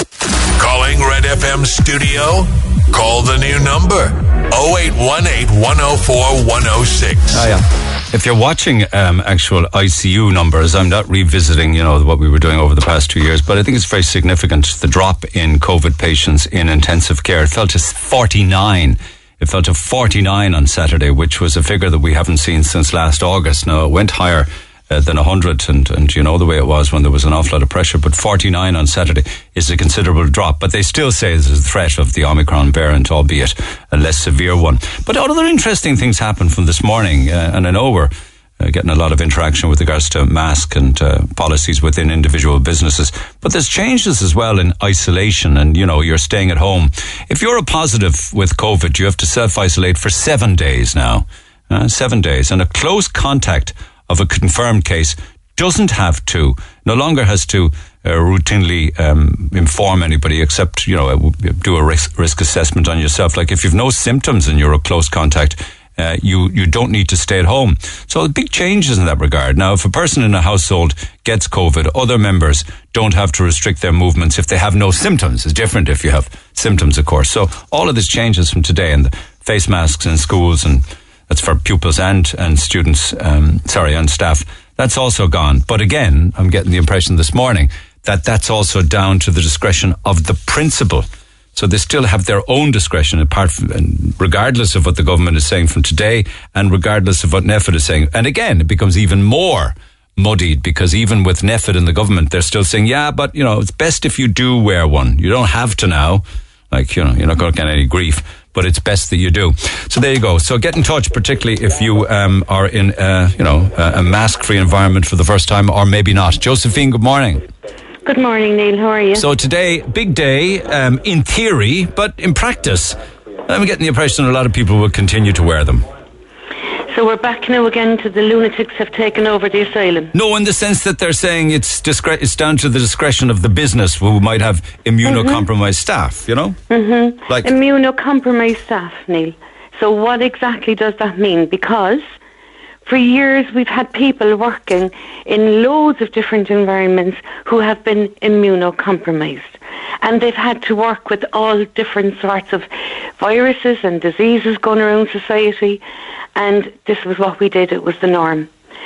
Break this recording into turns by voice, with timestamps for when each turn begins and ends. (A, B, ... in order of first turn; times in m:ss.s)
0:00.6-0:07.5 A
0:07.3-1:57.4 B
1:58.0-1:59.2 C
1:59.1-2:05.8 B
2:06.9-2:10.1 C
2:10.1-2:16.6 B
2:15.0-2:15.4 C
2:16.7-2:22.0 C
2:22.8-2:35.8 C
2:36.4-2:38.5 C